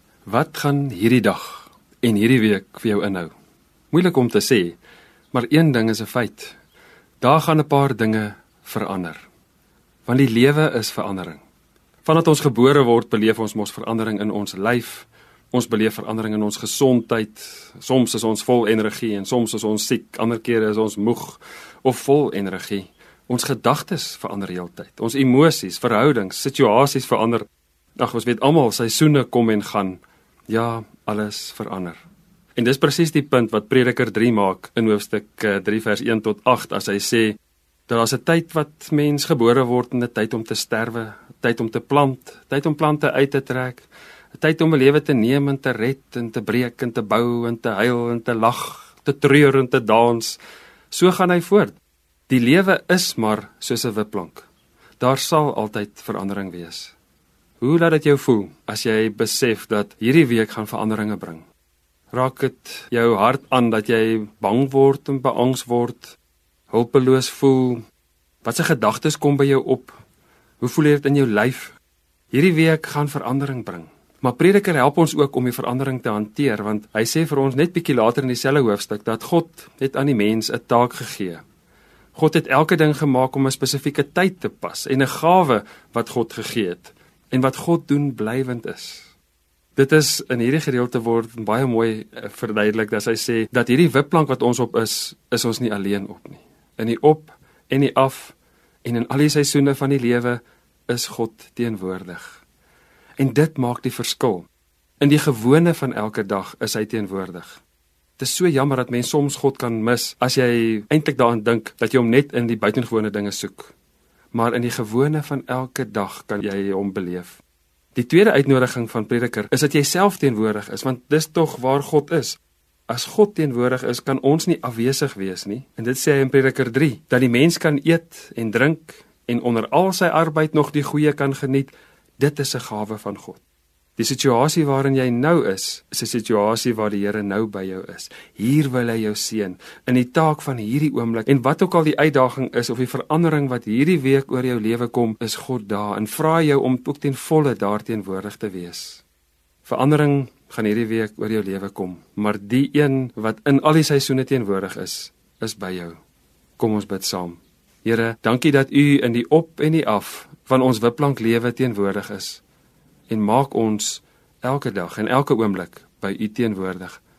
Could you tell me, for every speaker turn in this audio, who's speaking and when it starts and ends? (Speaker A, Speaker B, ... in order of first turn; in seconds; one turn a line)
Speaker A: 0.3-3.3
Speaker A: 3.9-4.8
Speaker A: 5.3-6.6
Speaker A: 7.2-9.3
Speaker A: 10.1-11.4
Speaker A: 12.1-27.5
Speaker A: 28.0-32.0
Speaker A: 32.6-37.4
Speaker A: 37.9-43.9
Speaker A: 44.4-50.4
Speaker A: 50.9-51.8
Speaker A: 52.3-54.5
Speaker A: 55.0-56.9
Speaker A: 57.6-61.5
Speaker A: 62.1-66.2
Speaker A: 66.7-67.8
Speaker A: 68.4-70.0
Speaker A: 70.6-71.8
Speaker A: 72.3-81.4
Speaker A: 82.2-89.1
Speaker A: 89.8-102.4
Speaker A: 103.2-104.5
Speaker A: 105.0-107.6
Speaker A: 108.2-113.7
Speaker A: 114.3-117.4
Speaker A: 118.0-122.4
Speaker A: 122.9-133.4
Speaker A: 134.0-149.0
Speaker A: 149.6-156.0
Speaker A: 156.6-162.4
Speaker A: 163.1-167.0